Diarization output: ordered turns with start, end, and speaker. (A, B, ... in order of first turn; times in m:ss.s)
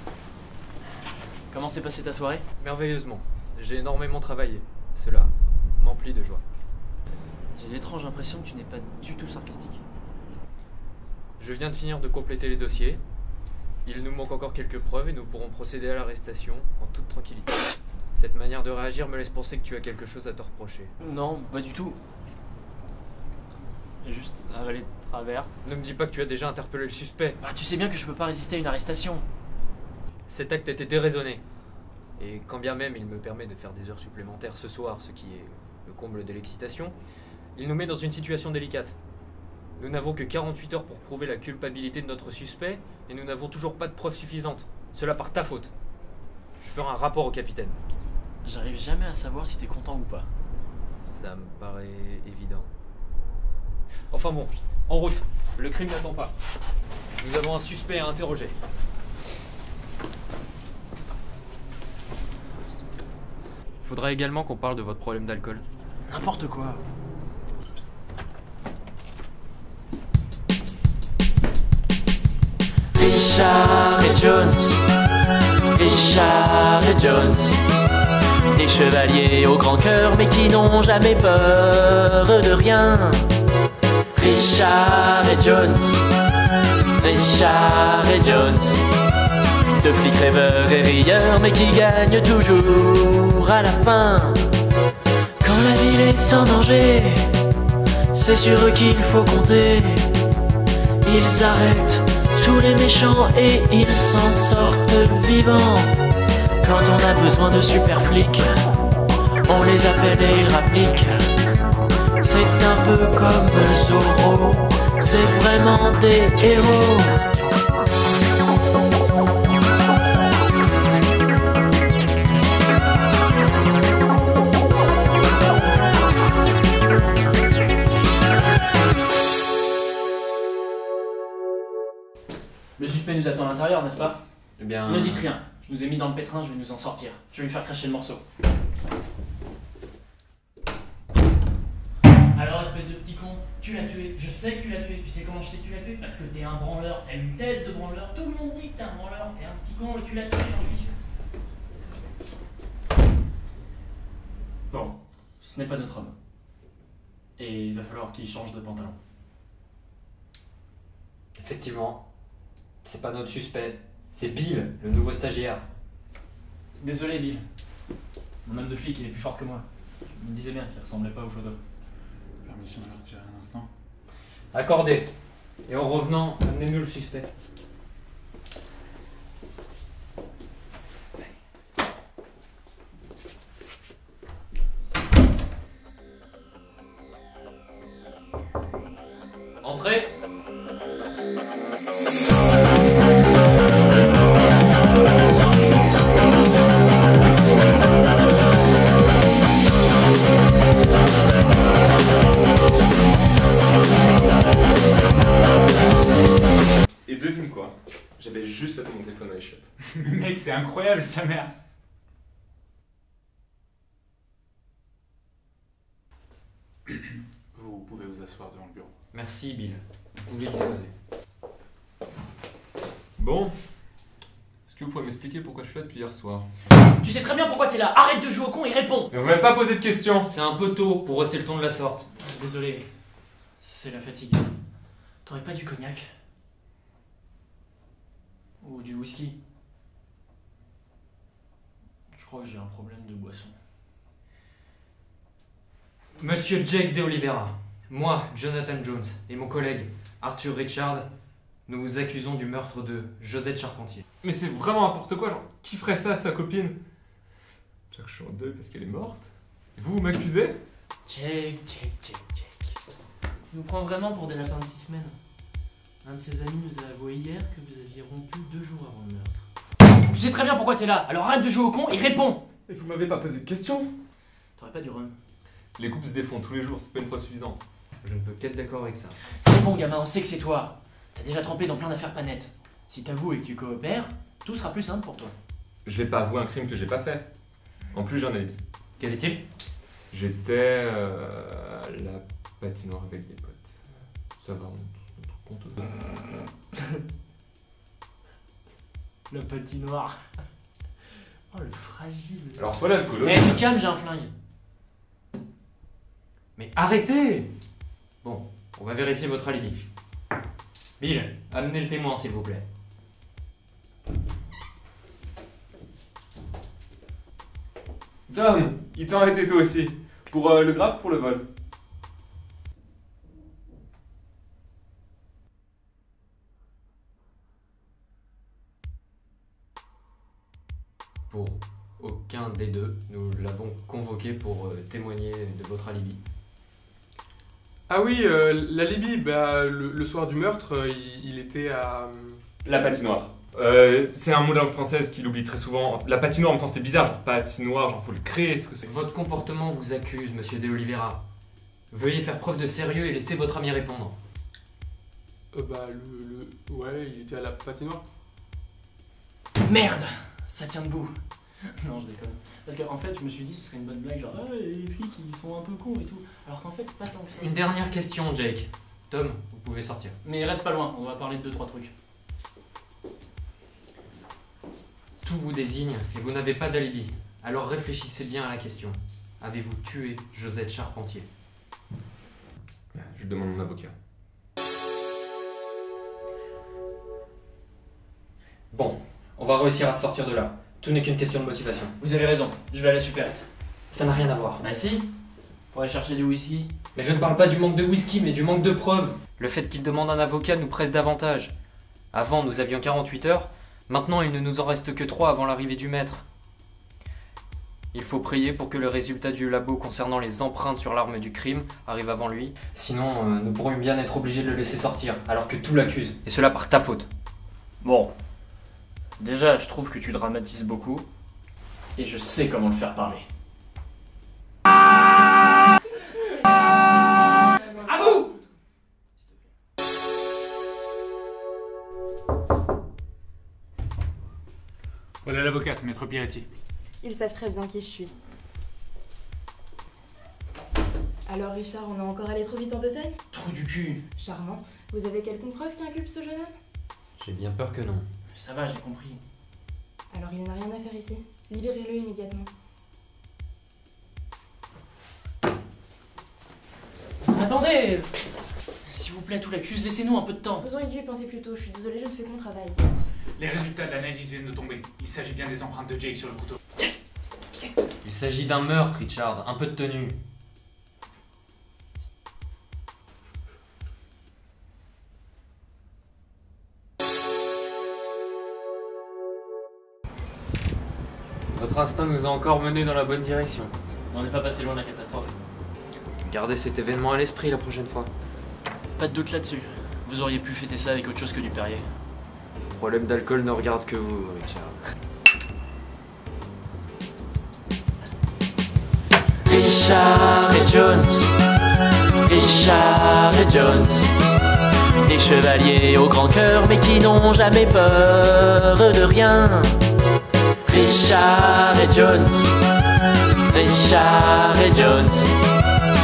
0:01.5-0:02.4 A
0:02.6-0:06.4 B
0:07.6-0:09.8 A
0:11.4-0:13.0 B
0:13.8-0:17.6 B
0:18.2-0:20.9 B
0:21.0-0:22.0 A
0:24.0-0:25.5 A
0:25.6-0:27.4 B
0:27.4-0:29.3 A
0:30.3-0:31.4 B
0:32.2-0:37.0 B
0:37.6-0:39.0 B
0:39.8-0:45.7 B
0:46.6-0:47.8 B
0:48.4-0:50.3 A
0:50.9-0:52.7 B
0:54.1-0:56.3 B
0:57.2-0:58.6 B
1:03.8-1:05.6 B
1:06.1-1:06.8 A
1:13.0-1:14.8 A
1:15.7-1:17.6 A
1:18.5-1:23.3 A
1:24.1-1:26.0 A
1:27.0-1:28.8 A
1:29.8-1:34.4 A
1:35.4-1:37.3 A
1:38.1-1:40.1 A
1:41.0-1:45.9 A
1:46.6-1:48.5 A
1:49.4-1:51.2 A
1:52.2-1:57.1 A
2:12.8-2:14.2 A
2:14.6-2:15.3 B
2:14.8-2:18.2 A
2:22.3-2:31.0 A
2:34.7-2:36.2 A
2:37.4-2:39.0 A
2:41.4-2:42.1 B
2:42.8-2:45.6 B
2:46.8-2:47.4 A
2:48.4-2:51.6 A
2:52.4-2:53.7 C
2:54.5-2:55.1 B
2:55.7-2:57.3 B
3:09.6-3:10.1 B
3:27.1-3:29.7 D
3:30.0-3:31.5 C
3:37.6-3:38.9 C
3:39.1-3:40.9 B
3:43.2-3:43.5 D
3:44.7-3:46.5 D
3:47.0-3:49.1 A
3:49.1-3:50.3 D
3:50.2-3:52.1 B
3:52.2-3:52.9 A
3:53.6-3:54.5 A
3:55.2-3:56.1 A
3:58.6-3:59.4 A
4:02.1-4:03.6 A
4:06.2-4:11.1 B
4:11.7-4:14.0 B
4:14.2-4:16.8 D
4:17.9-4:20.6 D
4:21.1-4:22.8 A
4:23.5-4:25.2 A
4:26.0-4:29.5 A
4:30.1-4:32.4 A
4:32.7-4:33.9 D
4:34.6-4:35.2 A
4:35.8-4:37.6 D
4:38.0-4:39.2 B
4:39.4-4:45.3 A
4:45.9-4:47.3 D
4:47.9-4:48.6 D
4:49.0-4:49.4 B
4:50.1-4:53.8 D
4:54.4-4:55.9 D
4:59.3-5:00.2 A
5:01.5-5:02.6 A
5:02.6-5:03.6 D
5:03.2-5:04.3 A
5:06.6-5:07.5 B
5:08.2-5:09.9 B
5:11.0-5:12.7 B
5:18.3-5:21.5 D
5:31.3-5:36.2 B
5:37.9-5:42.4 E
5:42.6-5:48.8 D
5:48.8-5:51.2 B
5:51.9-5:54.2 B
5:55.5-5:58.0 E
5:59.6-6:01.2 A
6:01.8-6:07.5 A
6:07.4-6:10.2 B
6:10.2-6:11.9 A
6:15.2-6:21.3 B
6:22.9-6:23.9 D
6:28.7-6:31.9 B
6:32.0-6:33.5 A
6:33.9-6:34.6 B
6:34.6-6:35.1 A
6:35.7-6:36.7 A
6:37.0-6:41.5 B
6:42.1-6:46.2 B
6:47.9-6:57.1 B
6:57.8-6:58.1 A
6:59.2-7:01.1 A
7:02.0-7:03.3 A
7:07.6-7:08.3 A
7:15.2-7:16.5 C
7:17.0-7:18.1 F
7:21.3-7:23.2 F
7:23.3-7:24.0 A
7:24.2-7:26.5 F
7:27.2-7:28.1 B
7:28.3-7:29.2 A
7:30.1-7:32.5 F
7:37.2-7:38.2 A
7:38.9-7:40.7 A
7:40.6-7:42.8 F
7:43.4-7:46.6 C
7:48.0-7:50.2 B
8:01.5-8:03.8 B
8:04.1-8:05.4 A
8:06.2-8:08.1 B
8:09.0-8:11.9 A
8:12.6-8:14.8 B
8:19.5-8:21.3 A
8:22.2-8:24.1 A
8:25.0-8:29.8 A
8:30.7-8:32.5 A
8:33.5-8:35.4 A